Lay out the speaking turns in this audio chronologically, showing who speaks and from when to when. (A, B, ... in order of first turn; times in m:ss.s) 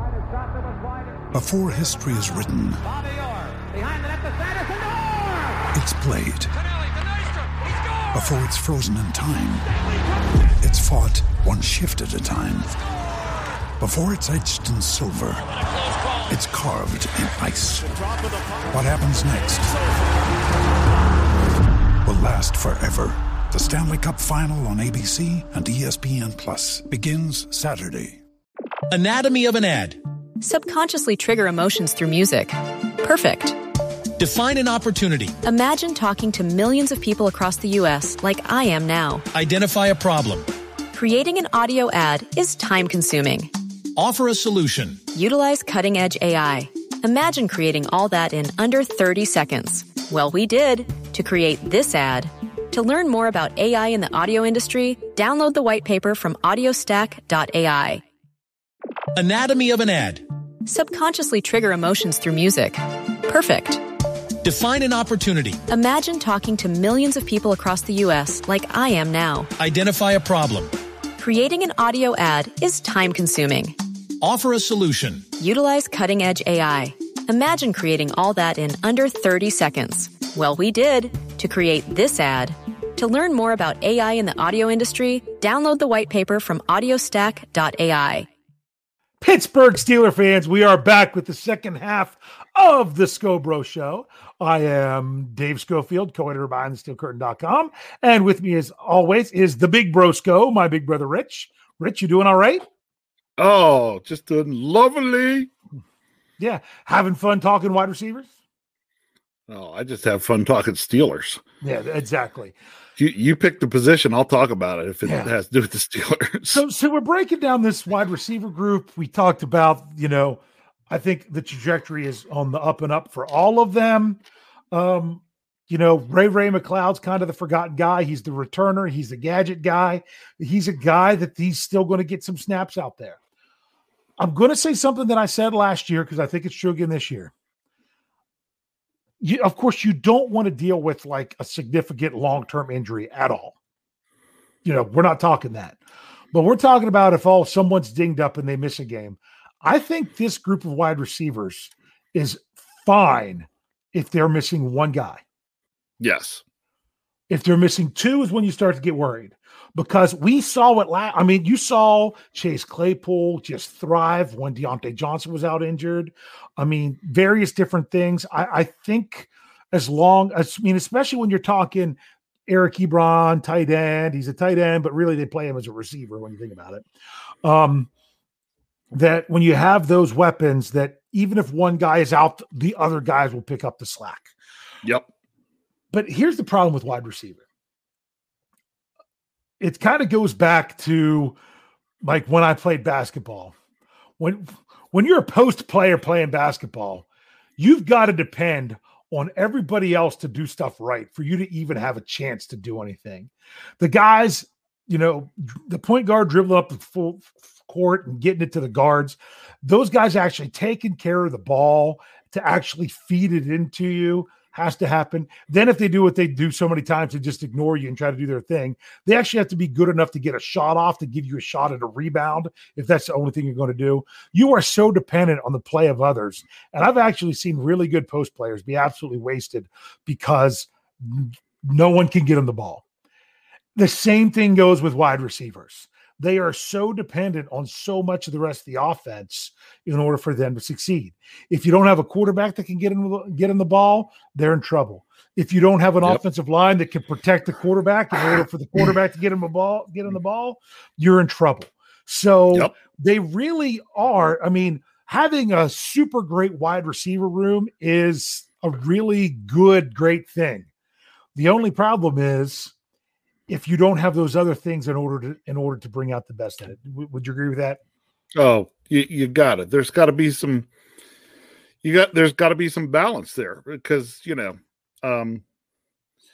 0:01.3-0:02.9 A
0:05.7-0:06.6 A
0:08.1-0:09.6 A
0:10.6-0:12.8 A
0:13.8-0:15.6 A
0:16.2-0:18.0 A
0:18.7-0:19.8 A
0:22.0-0:28.2 A
0:28.9-0:30.0 B
0:30.4-0:33.6 C
0:34.2-0:35.4 B
0:35.4-0:39.2 C
0:39.3-0:40.5 B
0:40.9-0:43.5 C
0:44.0-0:45.0 B
0:45.1-0:58.0 C
0:59.1-1:00.2 B
1:00.6-1:03.8 C
1:04.4-1:05.6 B
1:05.7-1:09.5 C
1:09.6-1:10.7 B
1:11.2-1:13.7 C
1:14.2-1:15.3 B
1:15.4-1:28.3 C
1:29.2-1:42.6 D
1:43.4-1:45.5 E
1:46.4-1:48.3 D
1:49.5-1:51.4 E
1:51.6-1:52.5 D
1:53.0-1:56.6 E
1:55.0-1:55.3 D
1:56.5-2:04.2 D
2:04.7-2:13.2 D
2:14.2-2:17.3 D
2:19.2-2:23.5 D
2:24.6-2:25.8 D
2:26.3-2:35.2 D
2:36.0-2:36.4 E
2:37.3-2:56.8 D
2:57.4-2:57.9 D
2:58.9-3:04.3 D
3:05.9-3:07.4 D
3:09.6-3:11.4 D
3:12.0-3:13.5 D
3:14.2-3:17.0 D
3:17.6-3:52.8 D
3:53.8-4:20.7 D
4:21.3-4:22.7 D
4:23.5-4:27.8 D
4:28.3-4:30.7 E
4:31.8-4:35.4 E